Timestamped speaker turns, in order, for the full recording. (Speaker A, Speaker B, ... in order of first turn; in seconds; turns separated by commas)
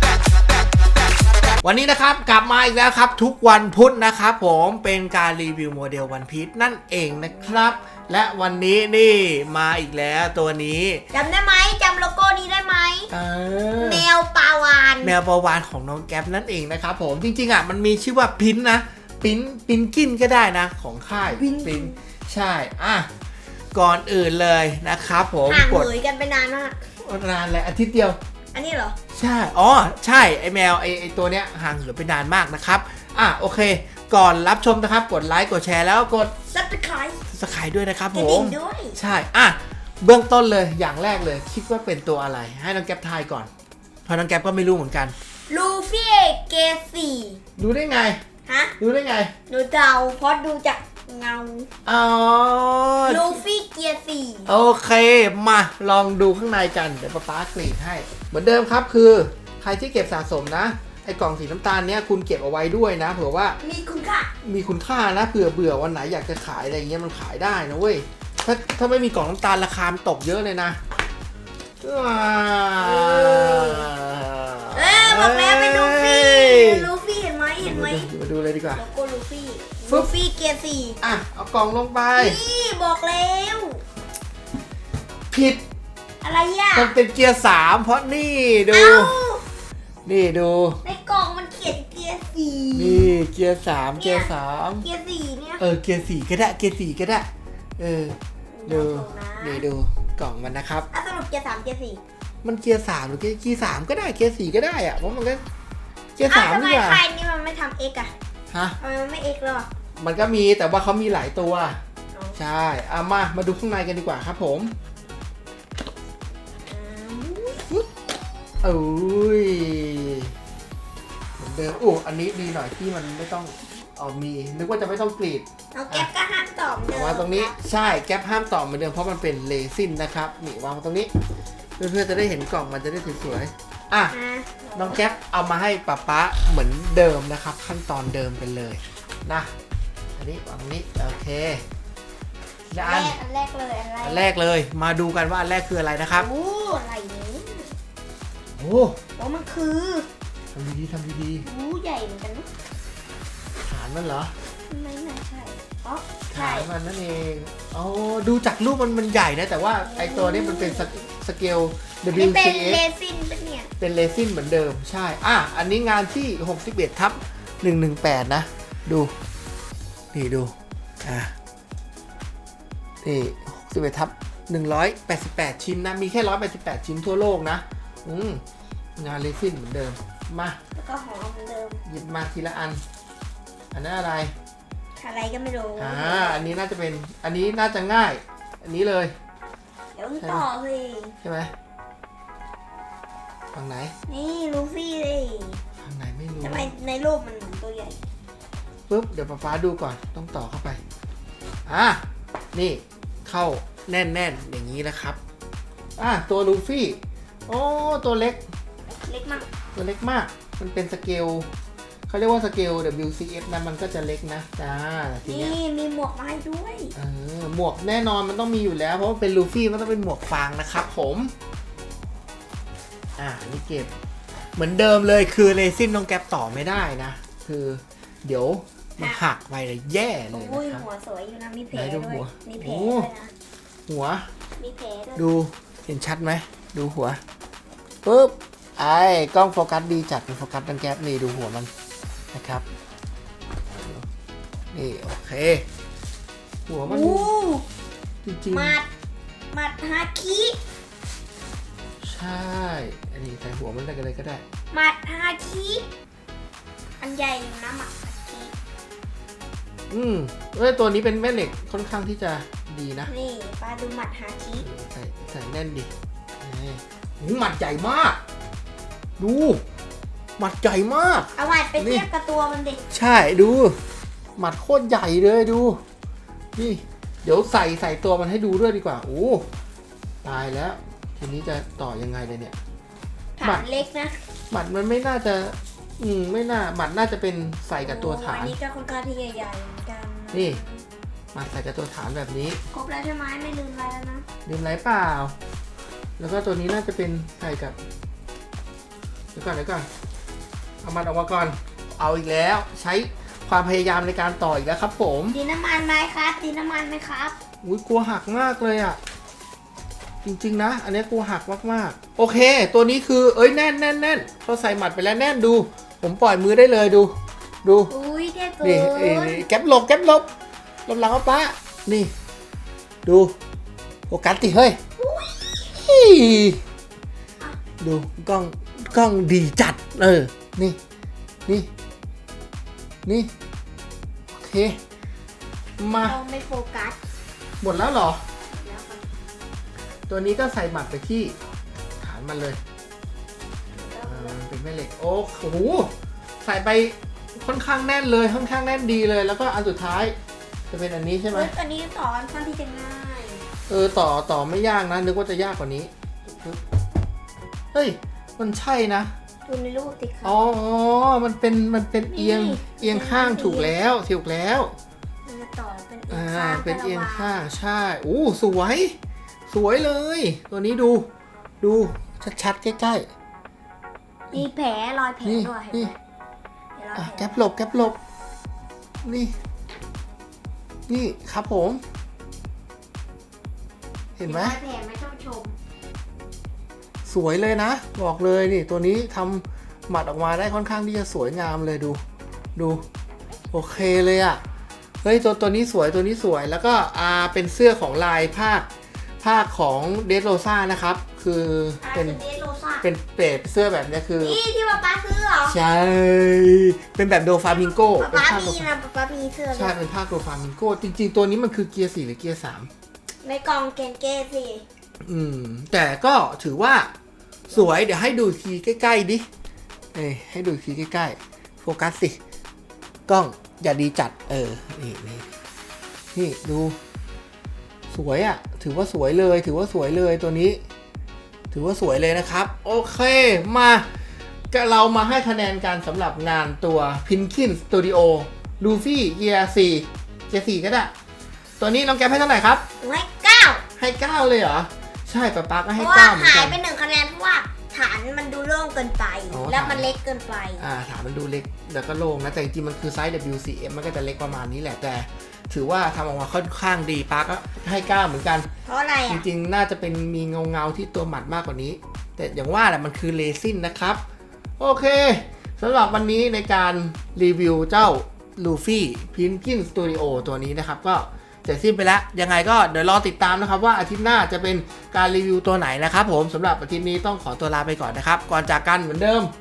Speaker A: 1.6-11.0, Speaker B: 11.1-13.1, Speaker A: 13.1-14.1, Speaker B: 13.8-15.1, Speaker A: 15.0-23.1, Speaker B: 21.3-22.0, Speaker A: 23.7-25.9, Speaker B: 25.5-26.8, Speaker A: 27.0-28.2, Speaker B: 28.5-29.0, Speaker A: 29.1-36.3, Speaker B: 36.5-37.2, Speaker A: 37.3-43.5, Speaker B: 38.1-39.0, Speaker A: 44.0-45.1, Speaker B: 45.5-47.4, Speaker A: 47.6-48.2, Speaker B: 48.5-48.7, Speaker A: 48.8-49.3, Speaker B: 49.5-51.7, Speaker A: 51.9-53.4, Speaker B: 53.1-54.5, Speaker A: 54.5-63.6, Speaker B: 63.6-64.3, Speaker A: 64.4-70.8, Speaker A: 71.8-76.9, Speaker B: 72.8-73.9, Speaker B: 74.7-78.1, Speaker A: 77.6-78.8, Speaker B: 78.7-81.0, Speaker A: 79.9-80.1, Speaker A: 81.0-82.4, Speaker B: 82.2-83.8, Speaker A: 85.3-85.6, Speaker B: 86.2-87.0, Speaker A: 86.7-89.1, Speaker B: 88.7-89.4, Speaker A: 90.0-90.8, Speaker B: 90.8-93.1, Speaker A: 92.8-94.9, Speaker B: 94.0-95.6, Speaker A: 95.6-98.2, Speaker B: 98.5-99.6, Speaker A: 98.7-100.9, Speaker B: 100.9-102.0, Speaker A: 102.4-105.4, Speaker A: 106.2-107.0, Speaker B: 106.2-108.1, Speaker A: 108.5-108.8, Speaker B: 108.8-109.7, Speaker A: 110.0-111.8, Speaker B: 112.1-112.4, Speaker A: 112.4-114.7, Speaker B: 116.7-117.7, Speaker A: 118.6-120.3, Speaker A: 121.4-126.1, Speaker B: 125.7-127.6, Speaker A: 126.9-131.1, Speaker A: 131.8-134.2, Speaker B: 134.1-135.1, Speaker A: 134.8-139.5, Speaker A: 140.2-141.6, Speaker A: 142.7-143.2, Speaker B: 142.8-144.3, Speaker A: 144.0-146.3, Speaker B: 146.2-147.8, Speaker A: 148.6-149.0, Speaker B: 149.2-150.1, Speaker A: 150.5-151.4, Speaker B: 151.4-152.5, Speaker A: 153.6-154.3, Speaker B: 154.7-156.7, Speaker A: 156.3-162.8, Speaker B: 159.7-161.1, Speaker B: 162.1-163.7, Speaker A: 163.8-169.1, Speaker A: 170.1-171.3, Speaker A: 173.0-178.4, Speaker A: 179.0-180.6, Speaker B: 180.8-181.8, Speaker A: 181.8-182.8, Speaker A: 183.7-184.3, Speaker B: 185.0-186.5, Speaker A: 185.8-189.1, Speaker B: 189.9-191.2, Speaker A: 190.2-190.5, Speaker A: 191.2-191.5, Speaker A: 193.5-193.9, Speaker B: 194.1-195.6, Speaker A: 195.8-196.7, Speaker B: 196.4-198.0, Speaker A: 198.9-200.8, Speaker A: 201.7-202.0, Speaker A: 202.5-205.2, Speaker A: 206.0-208.4, Speaker B: 209.0-209.5, Speaker A: 209.8-211.5, Speaker A: 212.1-215.6, Speaker B: 215.2-216.9, Speaker A: 216.9-221.3, Speaker A: 223.2-223.9, Speaker A: 224.6-230.9, Speaker B: 230.3-233.3, Speaker A: 231.7-233.1, Speaker A: 233.9-234.2, Speaker B: 234.6-235.2, Speaker A: 235.2-237.2, Speaker A: 238.0-241.7, Speaker A: 242.3-242.7, Speaker A: 243.7-244.1, Speaker A: 244.7-245.7, Speaker A: 246.7-247.3, Speaker B: 246.8-247.7, Speaker A: 248.2-248.8, Speaker B: 248.5-248.9, Speaker B: 249.5-250.6, Speaker A: 252.0-254.4, Speaker B: 254.7-255.9, Speaker B: 257.0-258.5, Speaker A: 259.9-263.1, Speaker B: 263.1-264.6, Speaker A: 264.6-268.2, Speaker A: 269.2-269.6, Speaker A: 270.4-272.1, Speaker B: 271.4-272.8, Speaker A: 272.9-273.8, Speaker A: 274.4-275.8, Speaker A: 276.6-279.4, Speaker A: 280.2-282.6, Speaker B: 283.4-284.2, Speaker A: 283.4-283.7, Speaker A: 284.5-288.6, Speaker B: 287.8-290.8, Speaker A: 290.3-290.6, Speaker A: 291.3-292.6, Speaker B: 292.7-294.2, Speaker A: 294.4-295.3, Speaker A: 296.2-297.8, Speaker A: 299.3-299.9, Speaker A: 300.8-305.4, Speaker B: 305.3-307.4, Speaker A: 307.6-309.0, Speaker A: 310.2-317.9, Speaker B: 317.9-319.5, Speaker A: 318.6-320.3, Speaker A: 320.9-322.1, Speaker A: 323.1-323.3, Speaker A: 324.1-324.8, Speaker B: 325.0-325.6, Speaker A: 325.7-326.6, Speaker A: 327.8-330.8, Speaker A: 333.1-333.3, Speaker A: 334.3-334.8, Speaker A: 335.8-336.2, Speaker B: 336.0-337.0, Speaker A: 337.6-338.2, Speaker B: 338.5-339.1, Speaker A: 340.1-341.4, Speaker A: 342.0-342.6, Speaker B: 343.8-344.4, Speaker A: 344.0-350.1, Speaker A: 350.7-351.5, Speaker B: 351.3-353.4, Speaker A: 353.7-356.6, Speaker A: 357.7-359.1, Speaker B: 359.4-360.5, Speaker A: 360.2-364.8, Speaker B: 362.1-363.8, Speaker B: 365.2-367.4, Speaker A: 366.1-368.9, Speaker A: 369.5-371.1, Speaker A: 371.6-373.1, Speaker B: 374.3-375.9, Speaker A: 375.2-375.9, Speaker B: 376.8-377.3, Speaker A: 376.9-378.0, Speaker A: 379.0-379.3, Speaker A: 380.9-381.8, Speaker A: 384.2-384.6, Speaker B: 384.2-385.5, Speaker A: 387.1-392.0, Speaker A: 392.6-392.8, Speaker A: 393.5-394.4, Speaker A: 395.0-398.7, Speaker A: 399.2-402.2, Speaker B: 401.8-402.8, Speaker A: 402.8-404.4, Speaker B: 404.2-405.6, Speaker A: 405.5-408.7, Speaker B: 407.4-409.8, Speaker A: 409.5-412.7, Speaker B: 413.2-414.6, Speaker A: 415.0-416.9, Speaker A: 417.5-419.3, Speaker A: 419.9-422.2, Speaker A: 423.1-425.3, Speaker A: 426.1-426.8, Speaker A: 427.9-430.6, Speaker A: 431.5-433.9, Speaker A: 434.5-440.9, Speaker A: 441.6-442.6, Speaker B: 442.8-443.6, Speaker A: 443.8-446.6, Speaker B: 445.8-450.6, Speaker A: 449.3-449.9, Speaker A: 450.6-458.5, Speaker B: 458.6-459.3, Speaker A: 459.1-464.0, Speaker A: 464.6-479.3